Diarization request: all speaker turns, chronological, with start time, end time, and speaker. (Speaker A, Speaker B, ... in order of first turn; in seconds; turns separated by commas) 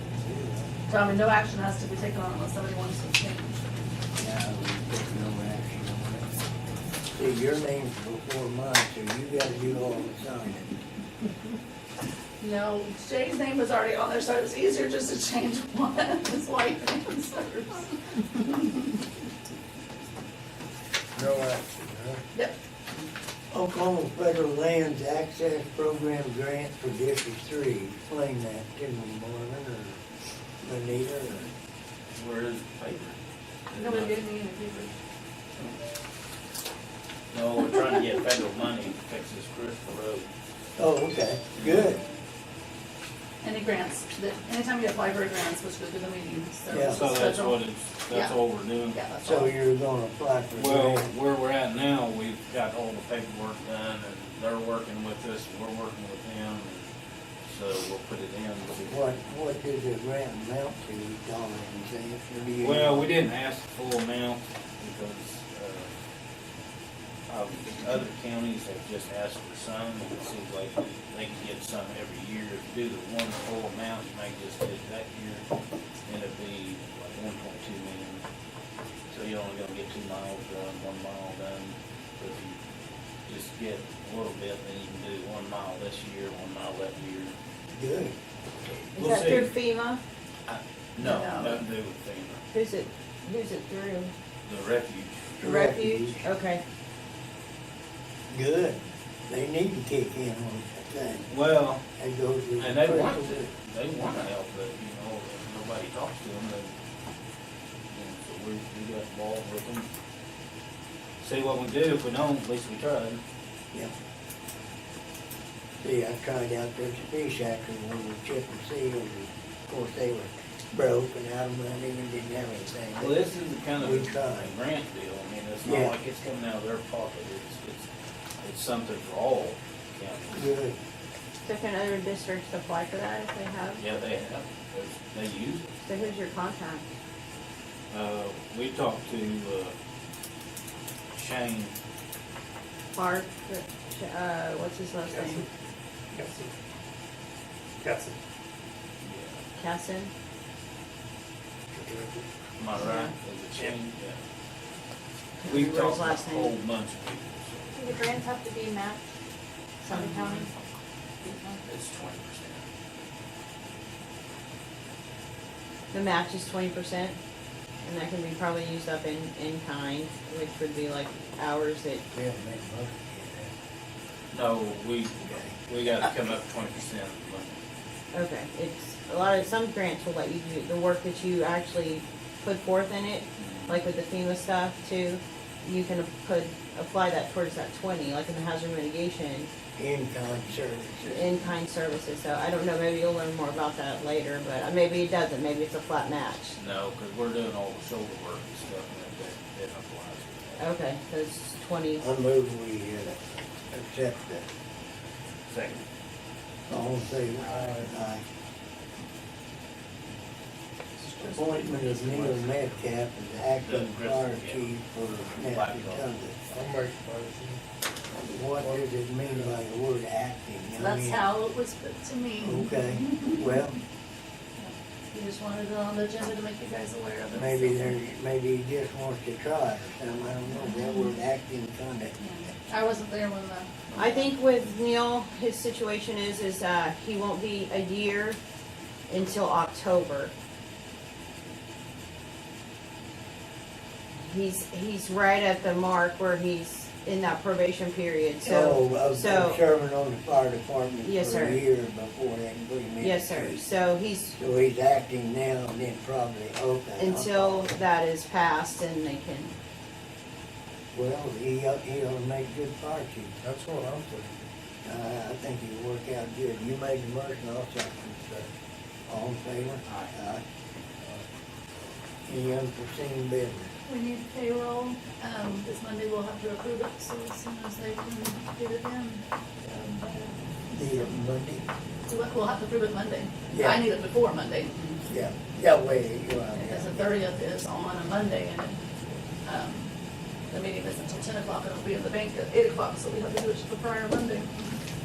Speaker A: 0.2-0.7, Speaker B: 0.9-3.9, Speaker A: 4.1-6.3, Speaker A: 7.1-10.8, Speaker B: 12.4-18.9, Speaker A: 21.1-22.2, Speaker A: 23.5-30.0, Speaker A: 30.6-31.5, Speaker C: 32.1-33.2, Speaker C: 33.7-34.2, Speaker B: 33.7-34.9, Speaker C: 37.3-40.3, Speaker A: 40.8-42.0, Speaker C: 41.5-42.0, Speaker B: 43.4-48.4, Speaker A: 46.7-47.1, Speaker C: 46.7-49.0, Speaker B: 48.9-49.5, Speaker A: 49.2-51.1, Speaker C: 50.5-56.9, Speaker C: 57.4-59.1, Speaker A: 58.9-63.1, Speaker C: 62.6-65.9, Speaker C: 67.3-75.4, Speaker C: 76.0-78.2, Speaker C: 79.1-82.6, Speaker C: 83.2-87.3, Speaker A: 87.7-88.2, Speaker C: 88.7-89.5, Speaker D: 88.9-90.0, Speaker C: 90.5-92.4, Speaker B: 91.0-91.6, Speaker D: 92.5-94.1, Speaker C: 94.4-95.3, Speaker A: 95.4-96.2, Speaker D: 95.4-96.6, Speaker A: 98.3-101.3, Speaker C: 101.3-101.8, Speaker A: 102.0-103.3, Speaker C: 102.6-106.7, Speaker C: 107.9-109.9, Speaker C: 111.2-113.2, Speaker A: 115.8-123.2, Speaker C: 123.0-127.9, Speaker A: 123.8-124.5, Speaker A: 125.6-125.9, Speaker C: 128.4-130.5, Speaker A: 130.3-130.8, Speaker D: 131.4-133.8, Speaker C: 133.8-135.8, Speaker D: 135.8-136.9, Speaker C: 137.9-139.7, Speaker C: 141.1-141.7, Speaker D: 142.9-145.4, Speaker E: 145.1-145.4, Speaker E: 146.1-146.5, Speaker E: 147.8-148.2, Speaker C: 149.0-149.4, Speaker D: 149.6-150.1, Speaker E: 151.7-152.3, Speaker C: 152.6-154.2, Speaker D: 152.8-153.1, Speaker D: 155.4-156.5, Speaker C: 155.4-157.8, Speaker D: 159.9-160.5, Speaker B: 159.9-160.4, Speaker C: 161.6-162.6, Speaker D: 165.9-167.2, Speaker D: 167.8-172.0, Speaker A: 172.1-173.5, Speaker C: 174.3-177.6, Speaker A: 175.2-175.5, Speaker D: 178.1-189.5, Speaker C: 183.4-183.8, Speaker A: 189.8-191.3, Speaker D: 191.0-196.6, Speaker C: 196.6-200.7, Speaker D: 200.6-202.0, Speaker A: 202.0-204.4, Speaker C: 205.5-205.8, Speaker A: 206.7-208.2, Speaker E: 207.5-207.9, Speaker C: 211.0-212.4, Speaker A: 211.3-216.4, Speaker C: 213.6-214.7, Speaker C: 215.4-216.1, Speaker E: 216.5-217.6, Speaker A: 218.2-221.2, Speaker E: 218.6-219.6, Speaker B: 220.8-223.4, Speaker A: 222.4-223.8, Speaker B: 224.6-227.9, Speaker A: 227.3-232.2, Speaker B: 230.6-231.1, Speaker B: 232.2-234.3, Speaker D: 234.0-238.4, Speaker D: 239.1-240.3, Speaker D: 244.2-249.6, Speaker A: 248.4-253.6, Speaker D: 251.0-251.6, Speaker D: 253.0-254.4, Speaker A: 254.4-257.7, Speaker D: 257.0-259.5, Speaker A: 260.9-263.3, Speaker E: 263.4-264.3, Speaker A: 264.8-268.5, Speaker A: 269.1-270.4, Speaker C: 269.8-270.1, Speaker A: 272.2-273.7, Speaker B: 273.9-281.1, Speaker A: 280.7-281.7, Speaker B: 282.1-285.0, Speaker A: 283.5-283.8, Speaker A: 285.1-287.1, Speaker B: 286.5-288.8, Speaker B: 289.4-289.9, Speaker B: 290.5-294.8